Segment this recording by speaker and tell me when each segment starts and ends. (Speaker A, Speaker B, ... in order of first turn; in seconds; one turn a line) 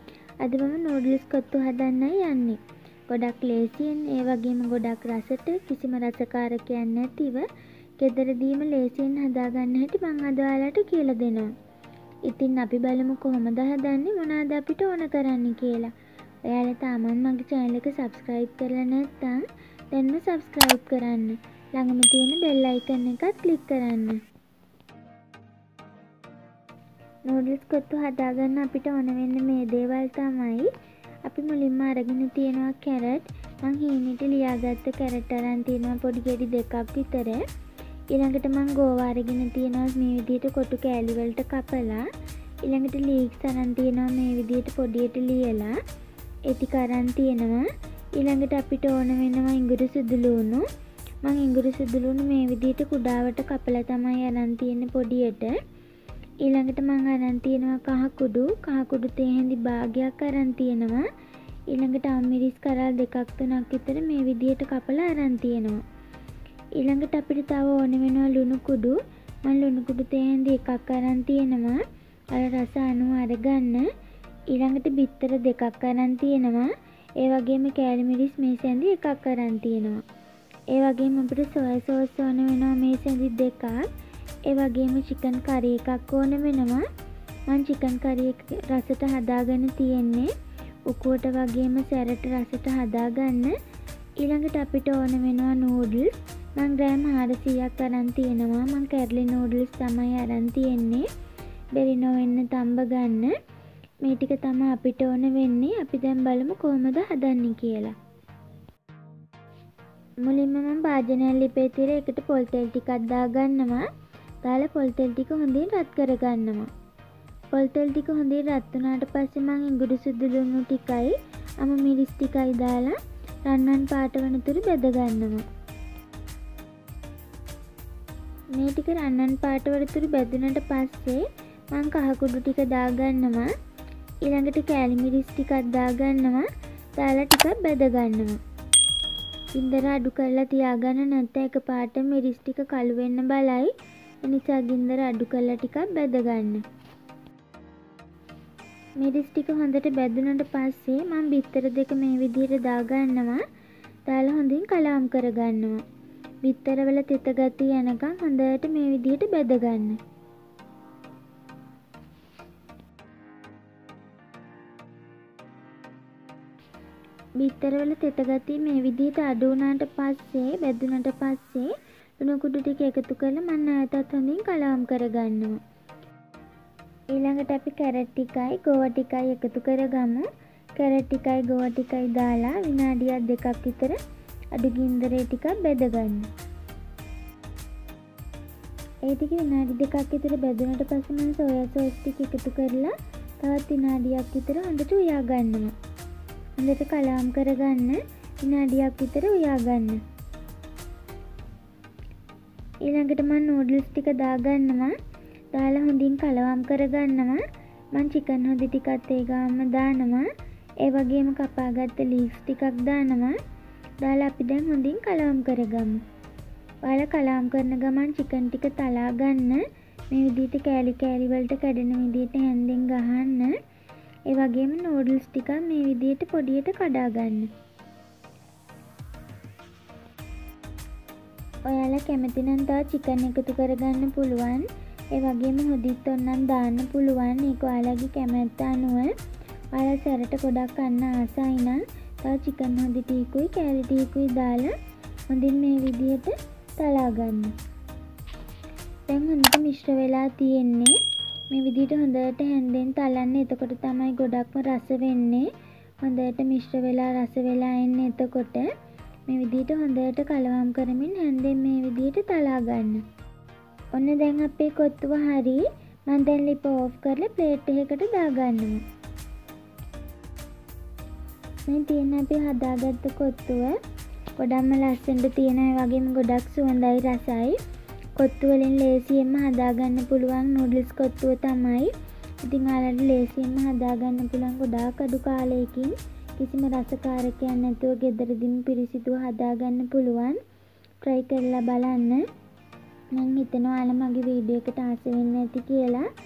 Speaker A: 0.4-11.5
Speaker A: 12.3-15.9
Speaker A: 16.5-24.2
Speaker A: 27.3-30.7
Speaker A: 31.2-37.4
Speaker A: 38.1-42.1
Speaker A: 42.6-45.8
Speaker A: 46.5-50.6
Speaker A: 51.2-55.6
Speaker A: 56.4-61.0
Speaker A: 61.7-65.8
Speaker A: 66.8-71.8
Speaker A: 72.3-73.9
Speaker A: 74.5-80.0
Speaker A: 80.7-83.9
Speaker A: 84.5-86.8
Speaker A: 87.5-90.3
Speaker A: 90.9-93.6
Speaker A: 94.2-101.1
Speaker A: 101.8-103.3
Speaker A: 104.0-108.0
Speaker A: 110.2-113.8
Speaker A: 114.4-116.7
Speaker A: 117.5-125.4
Speaker A: 128.6-133.5
Speaker A: 134.2-138.4
Speaker A: 139.6-146.6
Speaker A: 149.0-153.4
Speaker A: 154.1-155.8
Speaker A: 156.4-160.0
Speaker A: 167.4-175.6
Speaker A: 177.1-184.0
Speaker A: 184.5-186.3
Speaker A: 189.1-195.7
Speaker A: 196.6-200.0
Speaker A: 202.8-204.9
Speaker A: 205.5-207.4
Speaker A: 207.9-210.3
Speaker A: 210.8-213.4
Speaker A: 214.0-216.0
Speaker A: 216.8-223.6
Speaker A: 224.3-227.5
Speaker A: 231.7-239.2
Speaker A: 239.7-244.8
Speaker A: 245.3-247.5
Speaker A: 249.1-251.0
Speaker A: 251.5-255.5
Speaker A: 256.0-258.7
Speaker A: 259.3-263.0
Speaker A: 263.9-268.8
Speaker A: 271.7-273.8
Speaker A: 274.4-277.6
Speaker A: 278.2-281.9
Speaker A: 282.4-290.4
Speaker A: 291.0-292.2
Speaker A: 293.2-296.1